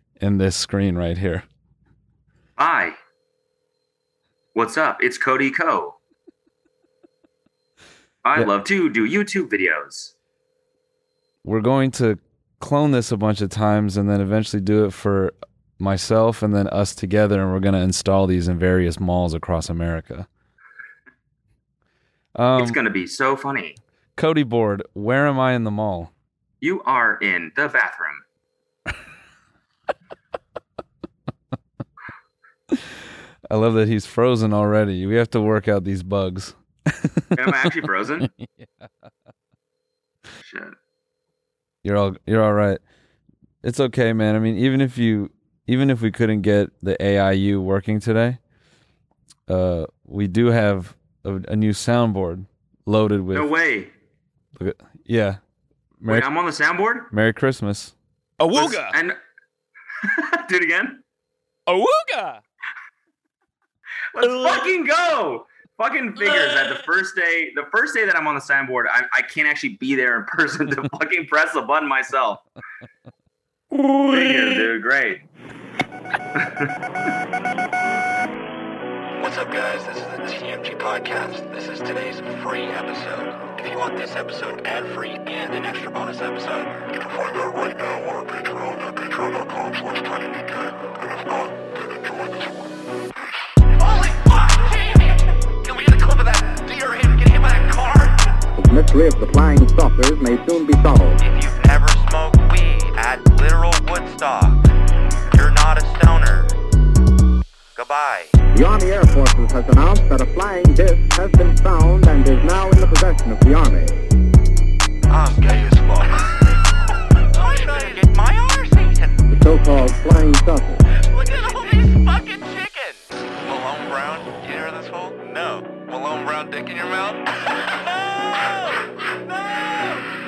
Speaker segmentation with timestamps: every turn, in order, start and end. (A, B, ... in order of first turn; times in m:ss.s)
0:00.2-0:01.4 A
0:02.6-0:03.0 B
0:04.5-0:06.0 B
0:08.2-0:10.1 B
0:11.4-0:20.3 A
0:22.3-0:22.8 A
0:22.6-0:23.8 B
0:24.2-0:26.1 A
0:26.6-0:28.2 B
0:33.5-0:37.4 A
0:37.3-0:38.3 B
0:38.4-0:38.9 A
0:40.4-0:40.7 B
0:41.8-0:42.8 A
0:43.6-0:48.4 A
0:49.5-0:53.5 A
0:53.3-0:53.9 B
0:54.6-0:55.4 A
0:56.0-0:56.3 A
0:56.1-0:57.1 B
0:57.1-0:57.9 A
0:58.4-0:59.0 C
0:58.5-0:59.2 B
1:00.0-1:01.0 B
1:01.7-1:02.4 C
1:04.1-1:12.4 B
1:04.2-1:04.6 C
1:06.3-1:06.6 C
1:13.8-1:14.4 C
1:14.0-1:15.2 B
1:16.4-1:16.7 B
1:19.2-1:30.4 D
1:33.7-1:38.2 D
1:38.6-1:41.2 E
1:41.2-1:44.6 D
1:45.3-1:46.5 D
1:47.7-1:48.3 D
1:48.5-1:54.0 E
1:55.1-1:56.3 D
1:57.2-1:59.2 D
1:59.3-2:00.8 E
2:01.0-2:07.2 D
2:08.4-2:08.7 D
2:09.3-2:10.0 D